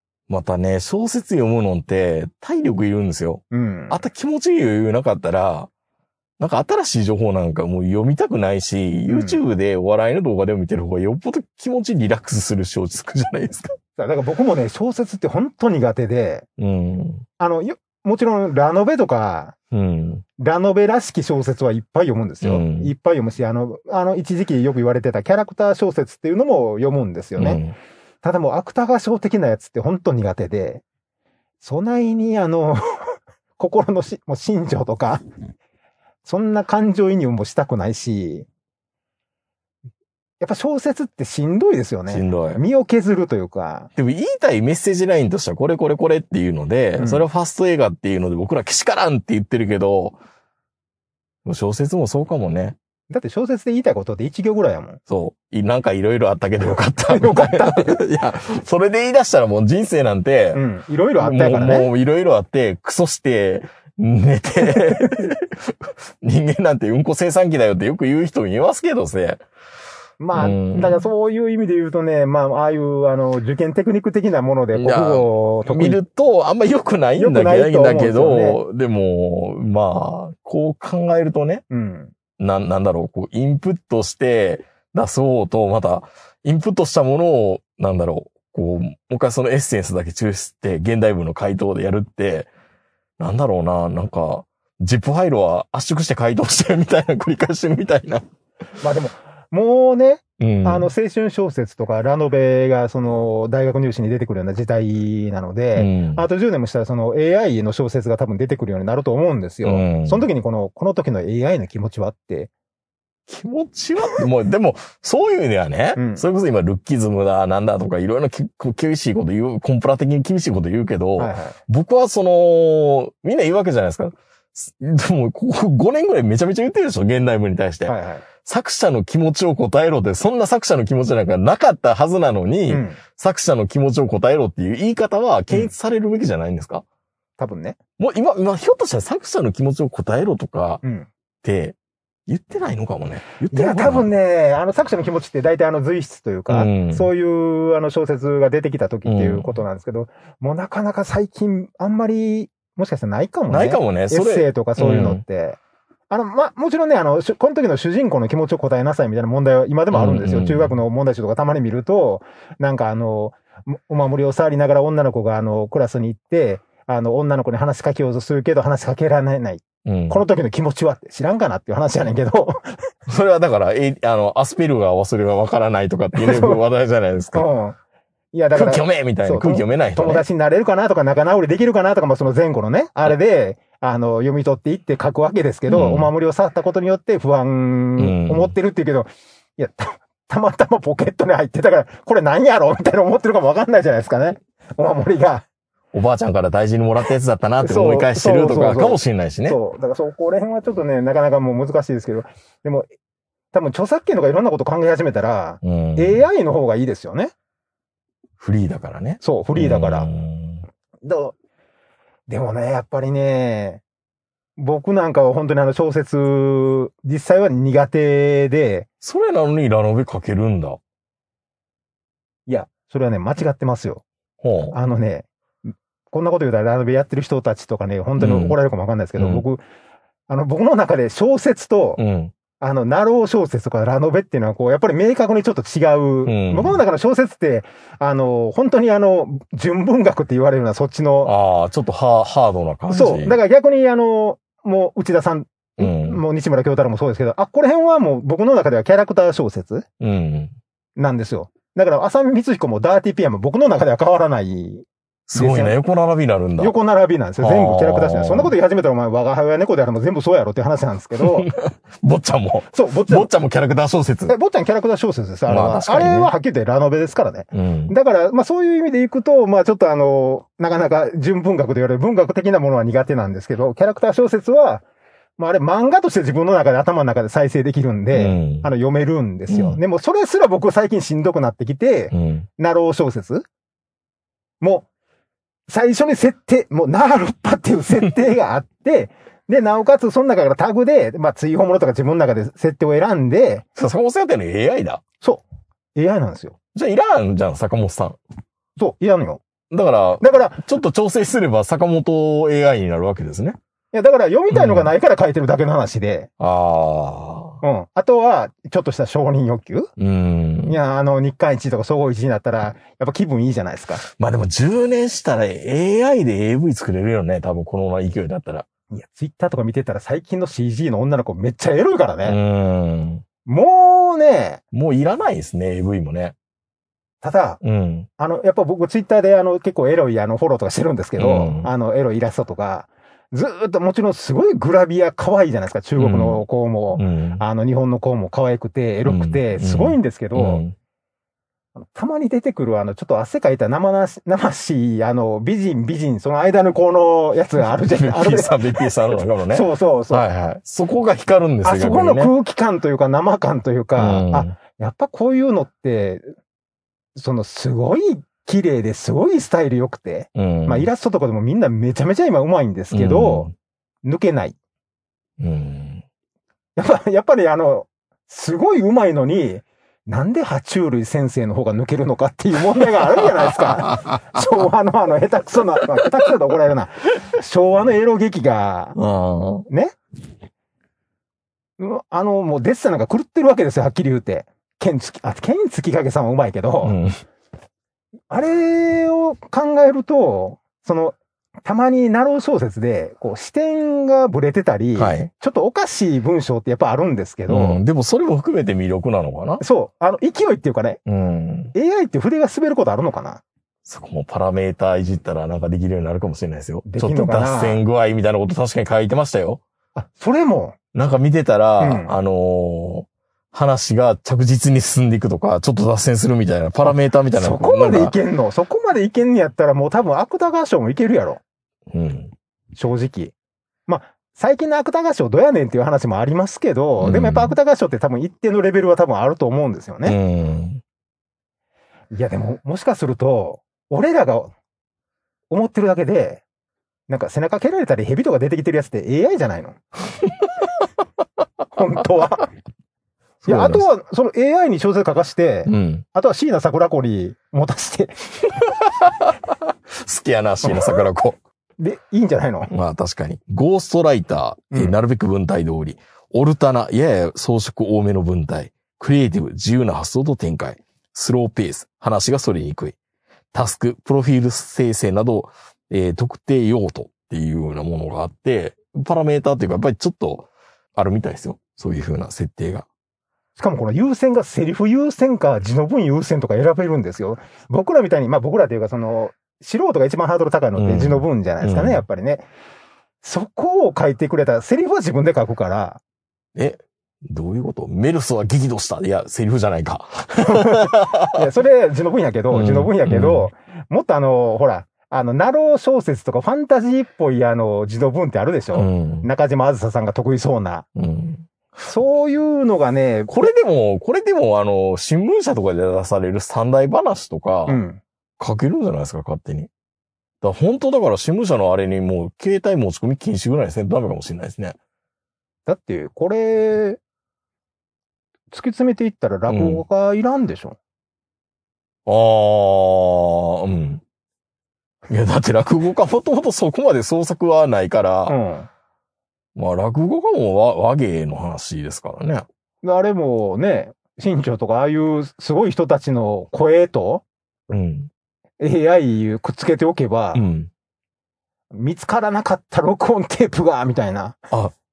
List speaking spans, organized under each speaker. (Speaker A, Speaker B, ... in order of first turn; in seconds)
Speaker A: 0.3-5.7, 6.4-13.8, 16.6-17.2, 19.7-20.2, 22.4-22.9, 27.4-27.8, 42.1-42.6, 44.0-50.2, 51.5-52.8, 55.1-60.6, 61.2-69.4, 70.3-71.1, 74.7-81.6, 82.4-92.5, 93.2-98.2, 100.4-100.9, 105.8-106.2, 109.6-110.3, 113.3-136.8, 138.0-140.8, 141.4-141.8, 142.3-144.1, 146.5-147.1, 149.1-149.6, 153.5-155.2, 159.9-160.7, 169.8-170.2, 173.1-177.5, 178.5-180.2, 185.7-186.1, 188.0-188.5, 195.9-199.6, 205.6-206.2, 208.4-210.6, 219.0-220.8, 224.4-224.8, 228.2-228.6, 229.2-229.4, 232.0-232.3, 236.3-236.8, 241.2-243.4, 245.8-246.2, 250.0-250.5, 255.3-256.7, 257.4-258.5, 261.2-264.4, 265.5-266.3, 267.5-267.9, 278.1-278.7, 279.5-279.8, 282.1-282.5, 293.8-295.0, 296.7-298.2, 299.7-303.6, 304.5-304.9, 306.4-307.6, 310.0-310.8, 314.1-318.7, 322.2-323.2, 324.7-326.4, 327.6-328.1, 331.2-331.7, 336.0-337.4, 339.1-340.8, 347.6-352.3, 354.0-354.6, 360.4-360.9, 362.9-363.5, 365.4-366.0, 379.0-379.7, 386.8-387.2, 395.0-395.3, 397.5-399.6, 401.1-401.7, 403.9-409.6, 410.9-418.1, 421.9-422.3, 427.0-427.6, 430.1-430.8, 443.4-443.9, 445.7-446.1, 448.6-451.4, 452.7-463.0, 463.5-472.9, 480.8-482.0, 486.6-491.4, 492.5-493.5, 498.7-499.3, 501.0-501.5, 503.3-507.8, 508.4-509.7, 510.4-514.8, 519.5-519.8, 522.1-524.0, 525.1-528.4, 529.5-532.5, 537.7-538.1, 540.3-540.7
Speaker B: 3.5-4.0, 9.1-9.4, 14.0-16.5, 17.4-19.6, 20.4-27.6, 28.2-30.8, 31.6-35.2, 36.2-38.5, 40.4-43.9, 47.0-47.2, 53.1-55.0, 56.8-58.0, 60.5-61.9, 64.7-65.3, 70.2-76.0, 77.2-78.6, 81.7-82.1, 98.8-112.5, 116.0-116.2, 121.2-121.6, 127.9-128.2, 132.7-133.0, 137.4-137.8, 140.8-141.1, 143.5-155.6, 156.1-172.8, 176.2-176.6, 177.3-177.8, 178.3-195.4, 197.6-202.9, 203.5-207.3, 209.2-210.1, 211.0-211.3, 212.3-213.8, 214.6-218.9, 222.5-224.0, 224.7-229.6, 230.3-232.0, 232.6-241.3, 242.9-249.9, 251.0-255.8, 256.6-261.5, 262.7-263.3, 264.3-274.8, 275.4-283.5, 284.6-284.9, 285.7-293.6, 295.9-296.6, 298.8-299.4, 300.2-300.6, 303.9-306.3, 307.6-309.9, 310.6-314.0, 318.9-322.4, 323.5-324.6, 327.2-327.6, 328.2-340.6, 341.8-348.9, 349.5-350.3, 351.6-356.3, 357.2-363.5, 364.1-364.6, 366.8-379.0, 379.7-380.0, 381.8-387.0, 388.3-397.8, 399.6-401.0, 401.7-403.4, 406.9-407.8, 409.9-410.8, 411.8-412.1, 416.8-421.4, 422.8-423.3, 423.9-430.2, 432.1-434.5, 435.5-436.4, 437.1-439.8, 441.7-442.5, 443.4-448.3, 450.7-451.0, 451.8-452.7, 473.6-482.5, 483.2-486.0, 490.4-500.9, 501.9-503.5, 507.7-508.0, 515.7-517.0, 518.5-520.8, 528.3-528.7, 532.8-537.2, 538.6-540.5, 541.7-544.4